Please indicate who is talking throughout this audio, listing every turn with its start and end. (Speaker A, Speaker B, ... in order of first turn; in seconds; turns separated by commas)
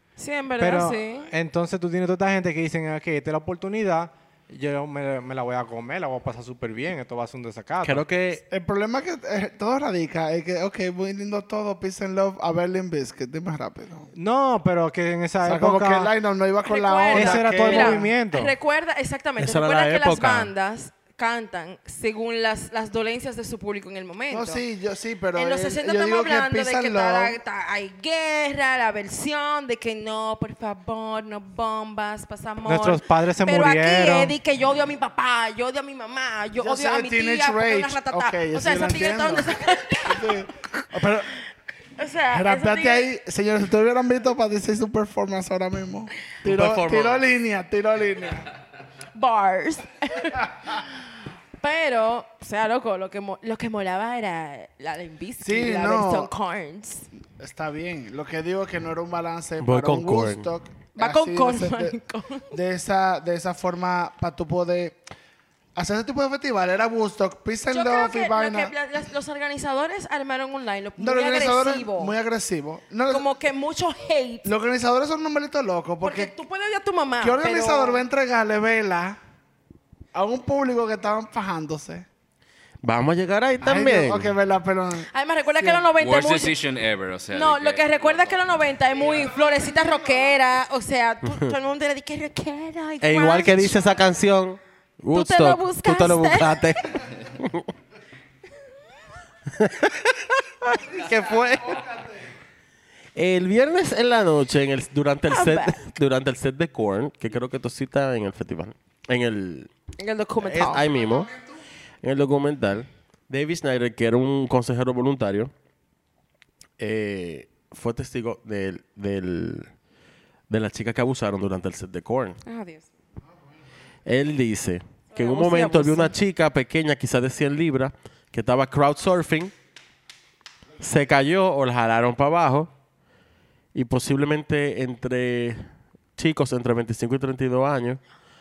Speaker A: 0.2-1.3, Speaker B: 0.6-8.1, Speaker C: 7.8-8.4, Speaker D: 8.5-14.1, Speaker B: 14.1-16.1, Speaker D: 15.4-18.1, Speaker A: 16.6-24.6, Speaker B: 17.1-18.5, Speaker C: 19.4-20.5, Speaker D: 24.3-27.4, Speaker A: 25.3-40.6, Speaker B: 32.6-34.4, Speaker D: 36.6-41.3, Speaker A: 42.0-43.1, Speaker D: 42.3-48.5, Speaker C: 46.4-47.2, Speaker A: 49.1-50.9, Speaker A: 51.6-57.1, Speaker D: 55.4-56.3, Speaker D: 57.4-61.9, Speaker C: 59.6-60.5, Speaker A: 61.0-62.5, Speaker D: 62.5-65.0, Speaker D: 65.8-68.7, Speaker A: 67.7-72.1, Speaker D: 71.0-73.3, Speaker A: 73.1-74.5, Speaker D: 74.4-76.3, Speaker A: 76.0-78.0, Speaker D: 77.2-79.2, Speaker D: 80.1-82.1, Speaker C: 82.8-84.3, Speaker D: 83.6-85.8, Speaker A: 85.1-86.6, Speaker E: 86.0-88.5, Speaker A: 87.3-94.0, Speaker D: 89.0-90.3, Speaker C: 91.2-91.5, Speaker C: 93.0-97.7, Speaker A: 95.1-97.0, Speaker C: 99.5-101.8, Speaker D: 100.8-102.3, Speaker C: 103.1-109.7, Speaker A: 105.3-105.8, Speaker A: 110.0-110.9, Speaker C: 110.4-111.3, Speaker D: 110.9-111.6, Speaker C: 112.0-115.5, Speaker C: 116.8-119.7, Speaker C: 120.5-122.4, Speaker A: 122.4-122.9, Speaker C: 124.0-129.5, Speaker A: 125.1-126.1, Speaker C: 130.8-132.7, Speaker C: 133.7-138.0